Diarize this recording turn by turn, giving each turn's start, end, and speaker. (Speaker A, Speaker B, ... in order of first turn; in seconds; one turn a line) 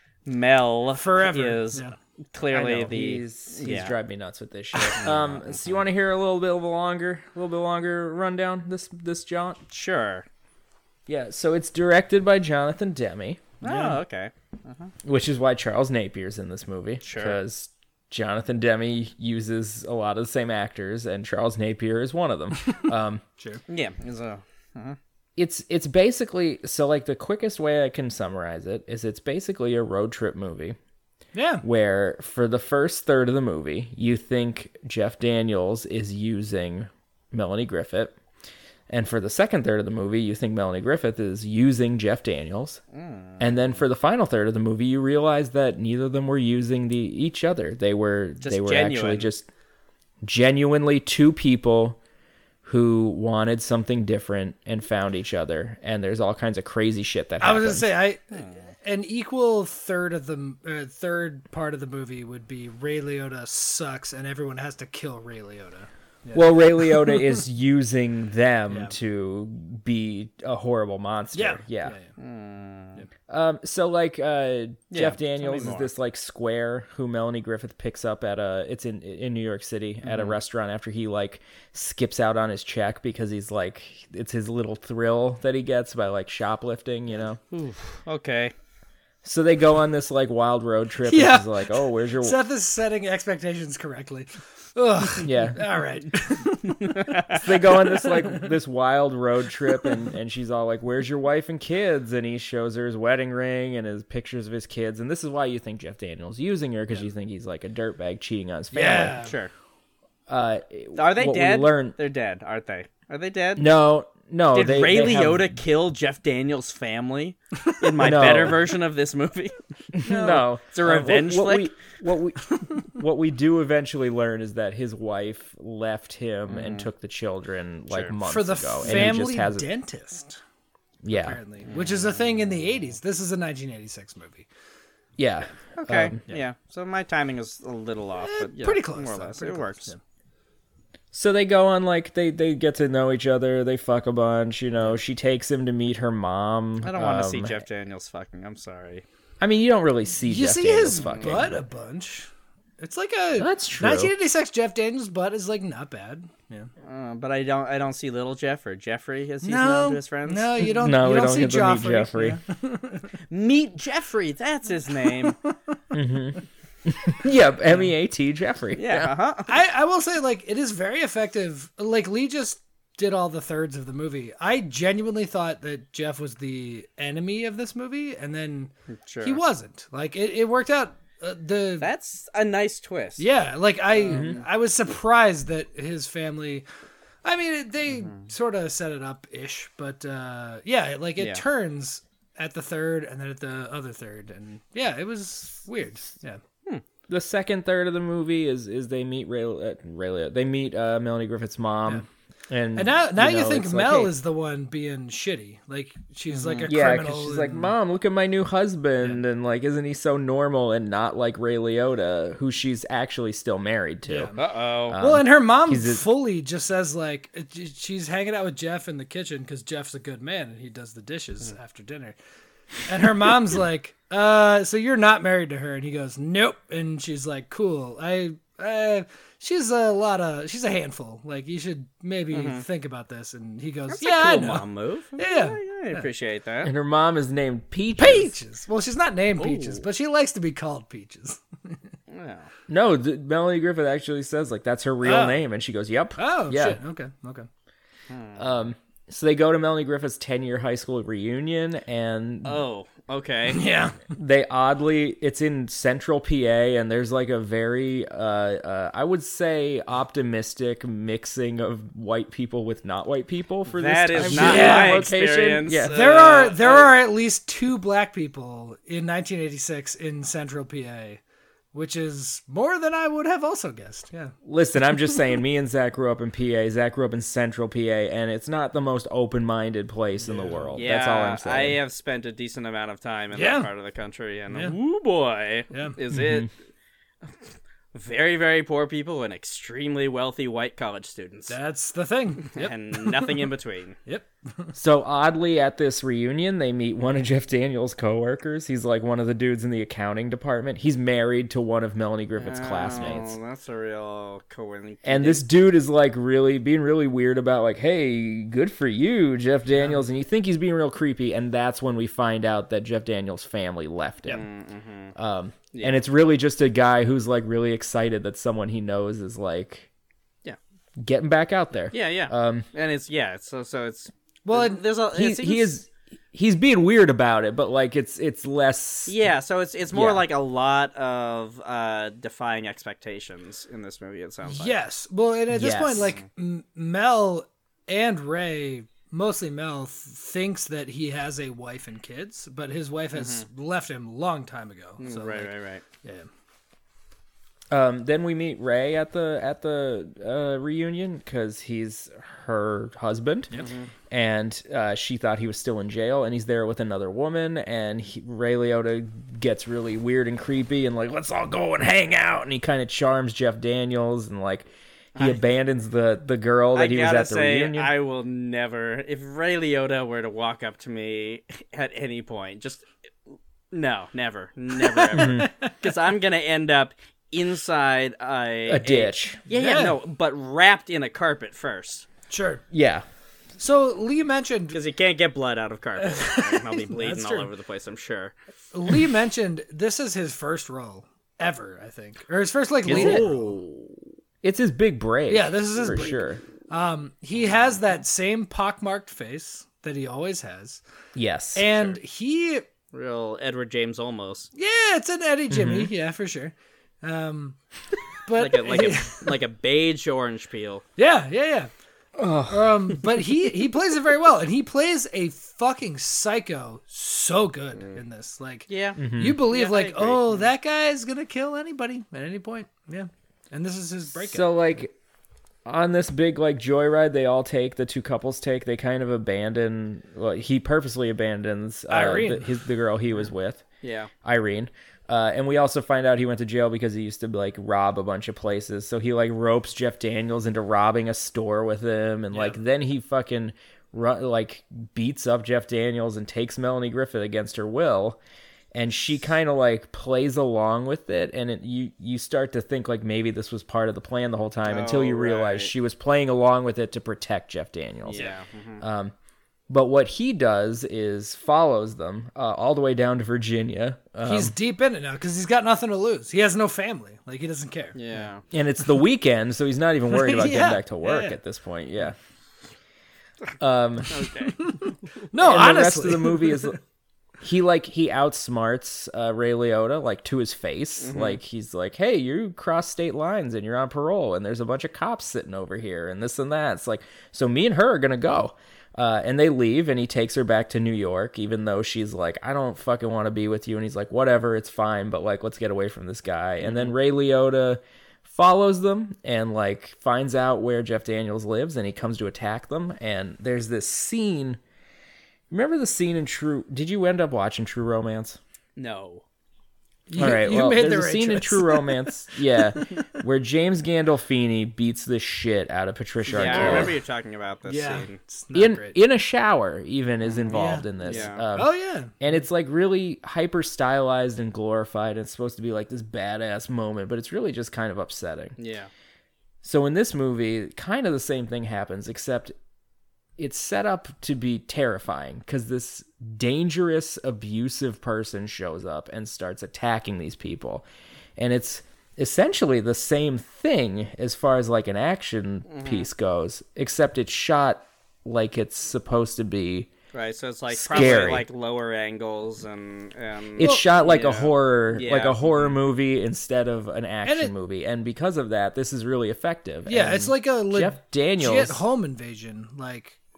Speaker A: 0.3-4.0
Speaker B: 0.9-1.9
Speaker C: 2.5-9.6
Speaker B: 4.7-5.0
Speaker A: 5.0-5.7
Speaker A: 9.7-10.3
Speaker C: 11.1-13.6
Speaker A: 13.6-14.9
Speaker B: 13.6-14.0
Speaker C: 15.0-23.2
Speaker A: 17.0-17.4
Speaker A: 23.7-25.0
Speaker C: 25.4-30.8
Speaker B: 31.3-31.6
Speaker C: 31.6-38.2
Speaker C: 38.9-42.8
Speaker A: 42.9-43.7
Speaker C: 43.4-49.5
Speaker A: 48.4-49.3
Speaker C: 50.2-52.0
Speaker C: 52.6-57.9
Speaker B: 57.4-67.3
Speaker A: 58.3-58.7
Speaker C: 66.3-72.0
Speaker B: 71.3-72.1
Speaker A: 72.2-73.0
Speaker C: 73.3-87.4
Speaker A: 74.9-75.9
Speaker A: 80.0-80.3
Speaker A: 87.5-88.5
Speaker C: 89.2-92.4
Speaker B: 91.0-98.5
Speaker C: 95.2-95.6
Speaker A: 96.8-97.4
Speaker C: 97.3-109.2
Speaker B: 108.7-109.3
Speaker A: 109.2-109.5
Speaker C: 110.3-112.0
Speaker A: 111.0-113.7
Speaker C: 113.5-115.5
Speaker A: 114.5-119.6
Speaker C: 118.0-118.6
Speaker C: 119.9-129.7
Speaker B: 120.0-120.5
Speaker A: 120.7-121.7
Speaker A: 126.5-126.9
Speaker A: 127.9-128.1
Speaker B: 128.2-130.4
Speaker C: 131.0-131.4
Speaker B: 131.2-134.5
Speaker A: 131.7-132.1
Speaker C: 135.2-136.2
Speaker A: 135.8-139.9
Speaker B: 138.2-140.0
Speaker C: 141.1-147.6
Speaker A: 146.8-149.0
Speaker C: 149.4-151.6
Speaker B: 150.2-156.7
Speaker A: 151.0-151.4
Speaker C: 153.3-154.1
Speaker A: 156.8-160.7
Speaker B: 159.4-163.1
Speaker C: 160.8-162.4
Speaker A: 163.3-165.4
Speaker B: 165.3-165.5
Speaker C: 165.9-169.1
Speaker A: 168.7-169.5
Speaker B: 169.5-181.9
Speaker A: 178.9-179.4
Speaker A: 181.8-183.2
Speaker B: 183.2-186.6
Speaker A: 183.9-184.4
Speaker C: 184.1-184.4
Speaker B: 187.2-196.4
Speaker A: 188.0-188.2
Speaker A: 191.2-191.4
Speaker C: 197.1-204.1
Speaker B: 202.7-207.7
Speaker A: 206.3-206.7
Speaker C: 206.7-214.4
Speaker B: 214.1-214.4
Speaker A: 214.3-215.0
Speaker C: 214.9-216.1
Speaker B: 215.0-222.2
Speaker B: 222.9-234.6
Speaker A: 232.3-232.6
Speaker A: 233.9-236.7
Speaker B: 235.2-236.1
Speaker C: 236.6-238.3
Speaker B: 238.0-241.8
Speaker A: 239.4-239.8
Speaker A: 242.1-242.5
Speaker C: 242.7-246.8
Speaker B: 245.0-245.4
Speaker B: 246.2-247.5
Speaker A: 248.1-248.5
Speaker C: 248.4-252.6
Speaker A: 252.4-253.6
Speaker B: 253.5-254.0
Speaker C: 254.1-265.9
Speaker A: 263.7-266.9
Speaker B: 264.2-265.1
Speaker B: 265.9-271.2
Speaker B: 271.7-274.3
Speaker C: 274.4-281.8
Speaker B: 280.2-280.8
Speaker A: 280.7-286.5
Speaker B: 283.3-283.7
Speaker B: 285.7-286.0
Speaker C: 286.1-286.5
Speaker A: 287.9-291.6
Speaker B: 291.5-293.4
Speaker A: 292.5-293.9
Speaker B: 294.1-294.7
Speaker C: 294.7-303.4
Speaker A: 302.4-305.4
Speaker C: 305.0-314.4
Speaker A: 314.3-315.1
Speaker C: 315.1-319.9
Speaker A: 315.7-316.0
Speaker C: 321.0-322.7
Speaker A: 321.9-325.7
Speaker B: 324.4-324.8
Speaker C: 325.1-329.2
Speaker A: 329.1-334.8
Speaker C: 329.9-330.2
Speaker B: 334.4-346.3
Speaker C: 335.5-336.2
Speaker A: 336.0-336.2
Speaker A: 343.1-343.4
Speaker A: 345.0-345.8
Speaker C: 347.7-353.5
Speaker A: 353.6-353.9
Speaker C: 354.1-367.9
Speaker A: 365.1-365.4
Speaker A: 366.7-382.1
Speaker B: 374.9-375.7
Speaker C: 375.1-375.5
Speaker C: 378.7-379.4
Speaker B: 379.5-379.9
Speaker B: 382.3-382.6
Speaker C: 382.7-383.1
Speaker B: 383.6-384.8
Speaker A: 384.7-388.3
Speaker B: 386.0-387.5
Speaker B: 388.7-393.5
Speaker A: 392.9-394.0
Speaker C: 392.9-393.3
Speaker C: 394.4-396.4
Speaker B: 395.3-400.8
Speaker C: 401.1-401.9
Speaker B: 401.5-402.6
Speaker A: 402.9-404.5
Speaker B: 404.6-407.6
Speaker C: 405.5-405.9
Speaker B: 408.2-409.3
Speaker A: 408.4-410.8
Speaker B: 411.0-411.7
Speaker C: 412.2-413.3
Speaker B: 412.5-424.6
Speaker A: 418.7-420.5
Speaker C: 419.0-419.4
Speaker C: 424.2-424.9
Speaker C: 425.7-433.6
Speaker B: 431.9-432.6
Speaker A: 433.8-434.1
Speaker C: 434.2-448.2
Speaker C: 448.7-459.1
Speaker A: 454.6-455.7
Speaker A: 458.1-458.8
Speaker C: 459.7-464.5
Speaker B: 464.2-468.2
Speaker A: 467.9-468.4
Speaker C: 468.5-472.2
Speaker B: 470.1-471.4
Speaker C: 473.6-474.2
Speaker A: 474.1-474.7
Speaker B: 474.6-476.8
Speaker C: 475.4-476.8
Speaker C: 477.4-504.6
Speaker A: 481.0-481.4
Speaker A: 496.6-496.9
Speaker C: 505.5-508.4
Speaker A: 508.8-509.2
Speaker B: 510.1-512.1
Speaker C: 510.2-516.9
Speaker A: 516.3-518.2
Speaker B: 516.4-517.0
Speaker B: 517.7-519.0
Speaker C: 518.5-528.5
Speaker A: 520.3-521.5
Speaker B: 520.5-522.3
Speaker A: 528.6-528.9
Speaker C: 529.6-532.5
Speaker C: 533.4-540.9
Speaker C: 541.4-549.9
Speaker A: 545.7-546.1
Speaker A: 550.1-555.8
Speaker C: 550.7-551.5
Speaker C: 553.6-561.8
Speaker B: 553.6-553.9
Speaker B: 557.2-557.5
Speaker B: 559.9-563.2